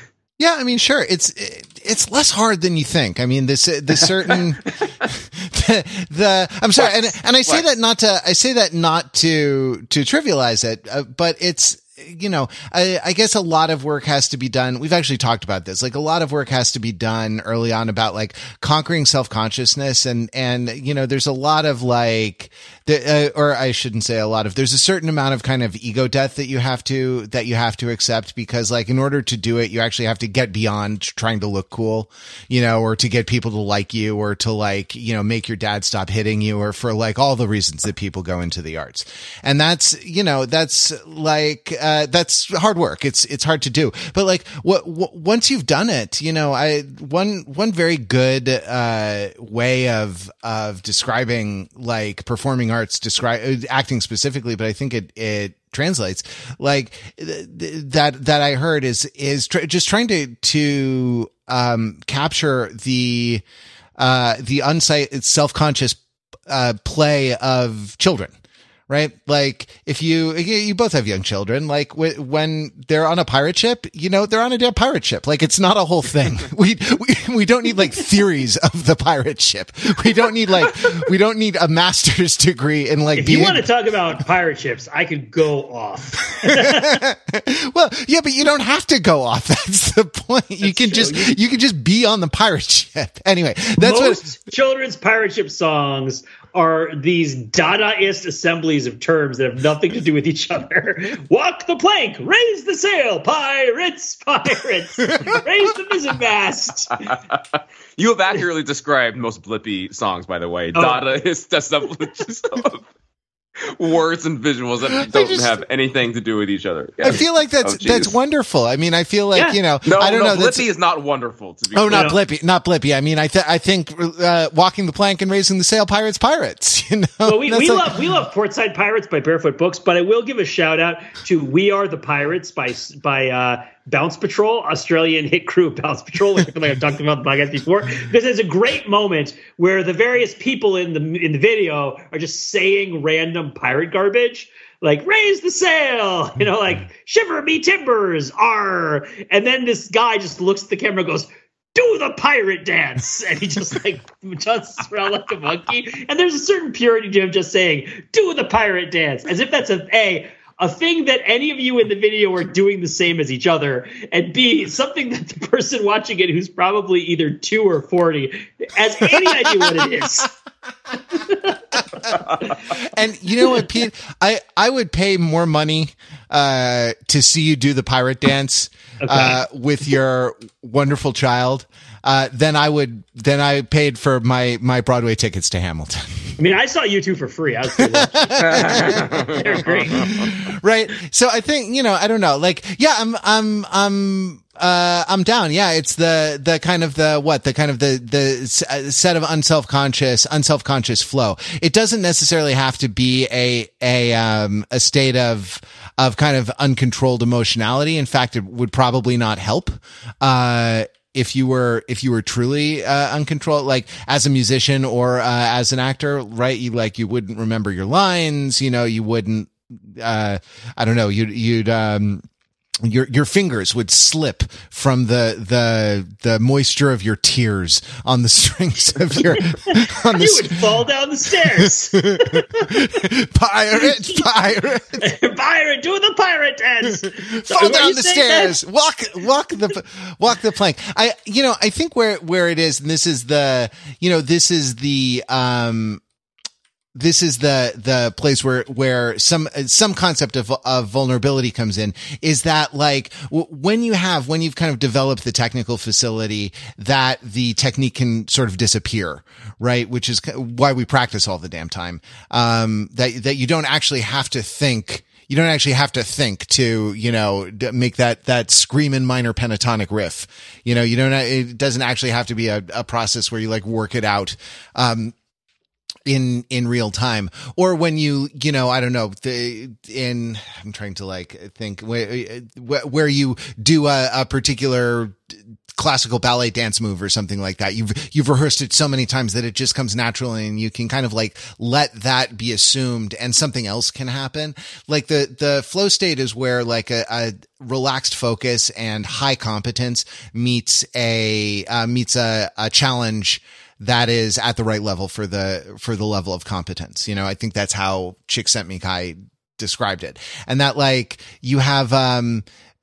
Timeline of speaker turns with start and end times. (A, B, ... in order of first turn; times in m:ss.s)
0:00.4-1:03.4 A
0:06.8-0:07.6 B
1:04.0-1:08.3 A
1:08.9-1:23.6 A
1:23.2-1:27.0 C
1:26.4-1:34.3 A
1:30.6-1:31.4 C
1:33.8-1:47.2 C
1:47.1-1:52.9 B
1:50.8-1:51.0 C
1:53.6-1:58.1 B
1:54.9-1:55.6 A
1:57.0-2:00.7 A
1:59.8-2:02.1 B
2:01.7-2:08.0 A
2:01.9-2:02.2 C
2:07.2-2:50.3 C
2:51.1-2:52.2 C
2:51.8-3:06.4 A
2:59.0-2:59.4 C
3:06.4-3:10.1 C
3:07.9-3:42.2 A
3:08.4-3:10.3 B
3:42.8-3:50.6 A
3:49.3-3:53.0 C
3:51.6-3:55.1 A
3:53.8-3:54.2 C
3:55.0-3:58.6 C
3:57.0-4:06.0 A
4:07.0-4:35.1 A
4:36.1-5:12.4 A